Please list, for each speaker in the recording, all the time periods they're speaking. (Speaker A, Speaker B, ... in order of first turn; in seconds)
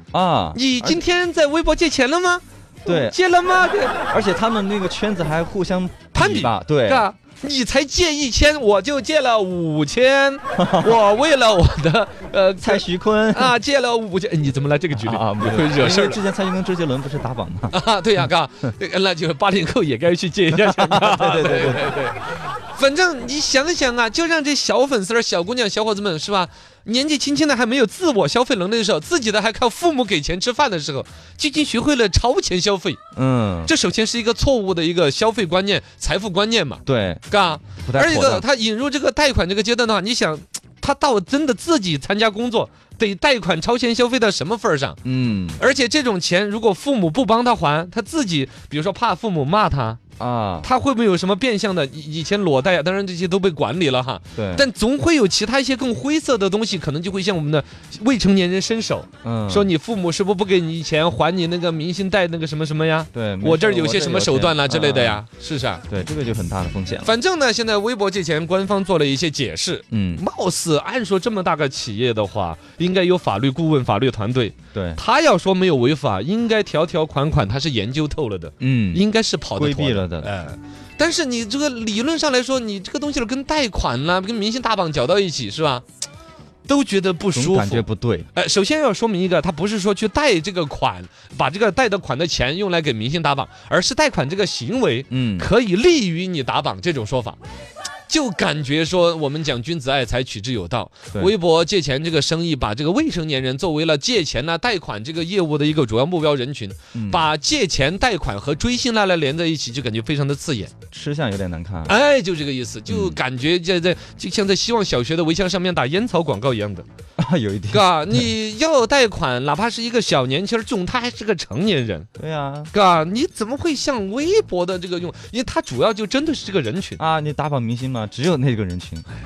Speaker A: 0.1-1.0, 2.9-3.2, 4.1-7.0, 10.6-10.9, 12.6-13.6, 14.9-17.8, 20.5-22.0, 33.1-33.7, 36.9-37.2, 37.8-38.4, 45.0-45.6, 50.2-50.7, 54.3-54.6, 59.2-59.7, 63.1-65.2, 65.9-67.1, 69.9-70.2, 74.7-75.0, 78.6-79.0, 79.5-80.3, 87.3-88.3, 95.1-95.5, 106.9-107.3, 110.9-111.9, 112.9-113.2, 117.2-117.8, 122.2-122.7, 127.0-129.1
Speaker B: 0.5-4.0, 6.1-16.2, 17.7-33.0, 33.6-45.0, 45.6-50.0, 50.6-65.8, 67.0-85.8, 86.7-87.8, 88.3-97.4, 98.1-110.7, 111.9-116.8, 117.7-122.1, 122.7-127.0